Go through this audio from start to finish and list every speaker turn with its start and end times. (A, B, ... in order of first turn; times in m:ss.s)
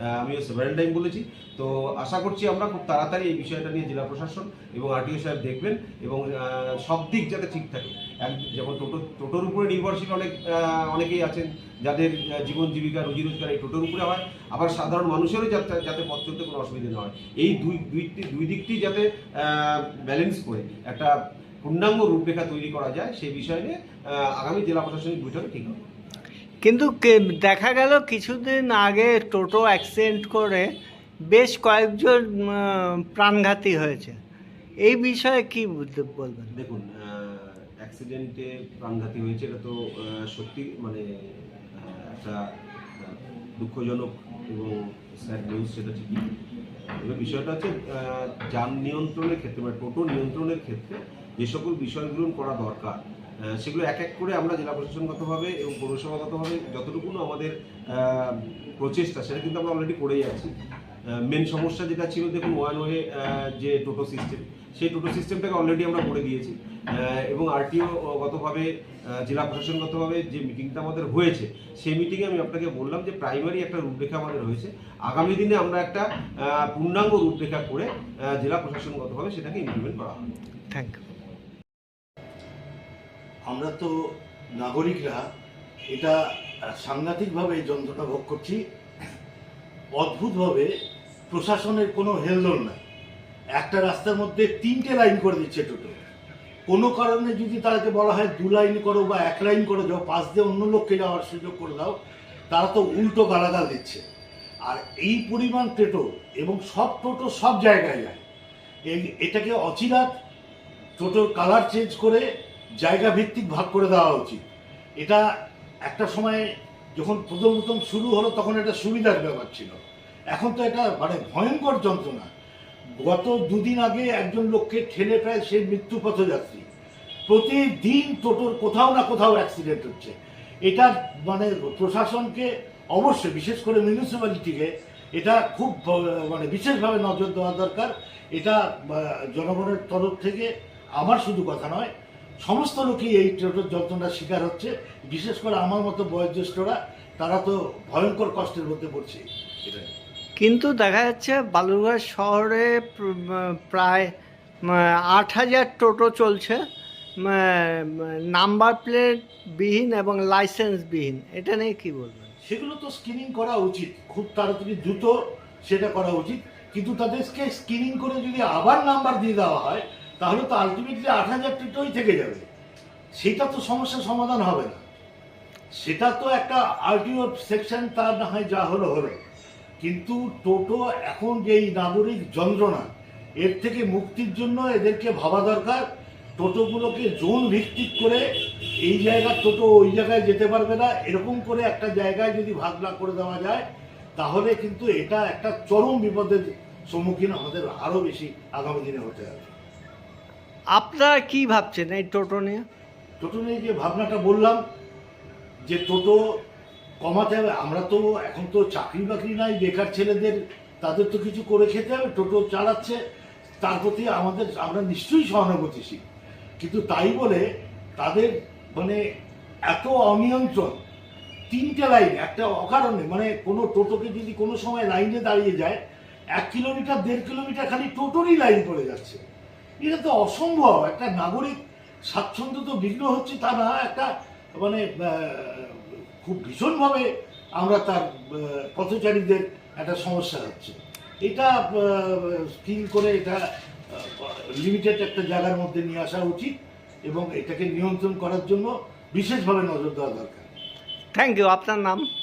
0:00.2-0:21.1 A
0:21.6-0:23.7 A
0:24.4-0:25.8 A
0:26.6-0:30.7 B
0:31.3-0:34.2 B
0:34.8-0:36.5 B
0:36.5-0:41.0 A
0:41.7-0:42.4 A
0:43.0-0:46.3 A
0:47.0-0:53.0 A
0:53.6-1:00.5 A
1:01.2-1:08.7 A
1:09.2-1:20.2 A
1:20.7-1:21.0 B
1:23.5-1:23.9 C
1:24.6-1:25.2 C
1:25.9-1:26.2 C
1:26.7-1:28.6 C
1:30.0-1:30.7 C
1:31.3-1:32.8 C
1:33.6-1:36.0 C
1:36.7-1:42.0 C
1:42.5-1:44.0 C
1:44.6-1:48.2 C
1:48.9-1:50.1 C
1:51.0-1:52.2 C
1:52.8-1:54.4 C
1:55.9-1:56.4 C
1:57.0-1:59.7 C
2:00.3-2:02.3 C
2:03.0-2:06.6 C
2:07.3-2:21.9 C
2:22.4-2:29.9 C
2:30.4-2:34.1 B
2:34.6-2:36.6 B
2:37.2-2:42.4 B
2:42.4-2:45.1 C
2:45.7-2:52.4 C
2:53.2-2:54.8 C
2:55.8-2:59.2 C
2:59.8-3:02.9 C
3:03.4-3:05.8 C
3:06.4-3:08.2 C
3:08.8-3:13.6 C
3:14.2-3:19.5 C
3:20.7-3:22.6 B
3:23.2-3:24.6 C
3:25.7-3:26.2 C
3:27.0-3:33.0 C
3:33.6-3:36.0 C
3:36.6-3:37.4 C
3:38.0-3:39.0 C
3:39.7-3:40.8 C
3:41.5-3:45.8 C
3:46.4-3:49.2 C
3:49.8-3:51.6 C
3:52.1-3:57.1 C
3:57.6-4:03.4 C
4:03.9-4:06.5 C
4:07.1-4:10.5 C
4:11.1-4:12.1 B